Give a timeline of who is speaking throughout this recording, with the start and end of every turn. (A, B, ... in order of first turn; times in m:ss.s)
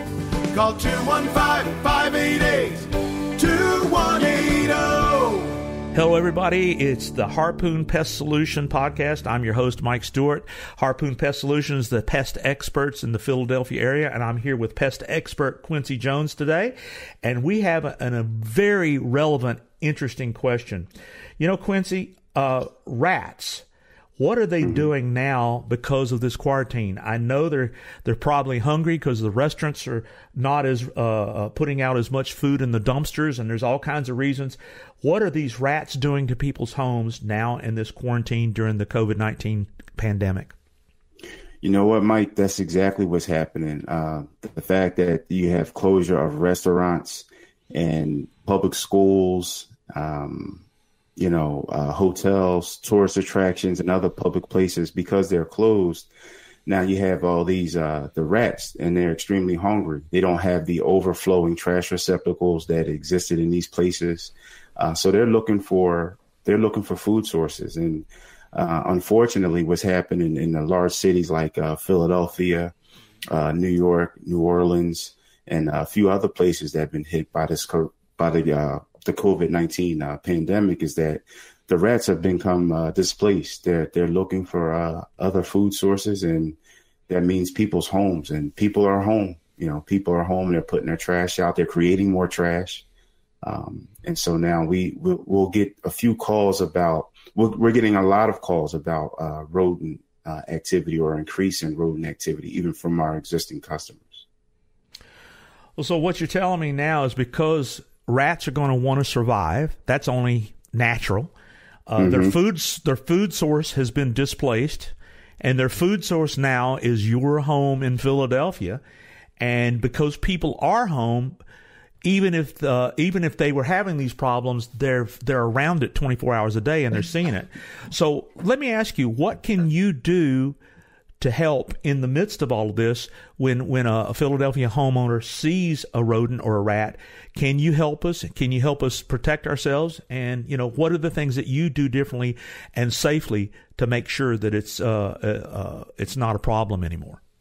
0:00.5-0:05.6 A
0:05.9-0:20.9 B
0:21.4-0:23.6 B
0:24.2-0:40.5 B
0:41.6-0:50.6 C
0:51.2-0:56.1 C
0:56.6-1:12.7 C
1:13.3-1:26.6 C
1:27.1-1:32.8 C
1:33.4-1:44.2 C
1:45.8-1:51.3 B
1:51.9-1:58.8 B
1:52.0-1:52.4 C
1:59.4-2:01.4 B
2:02.0-2:10.6 B
2:11.2-2:27.2 B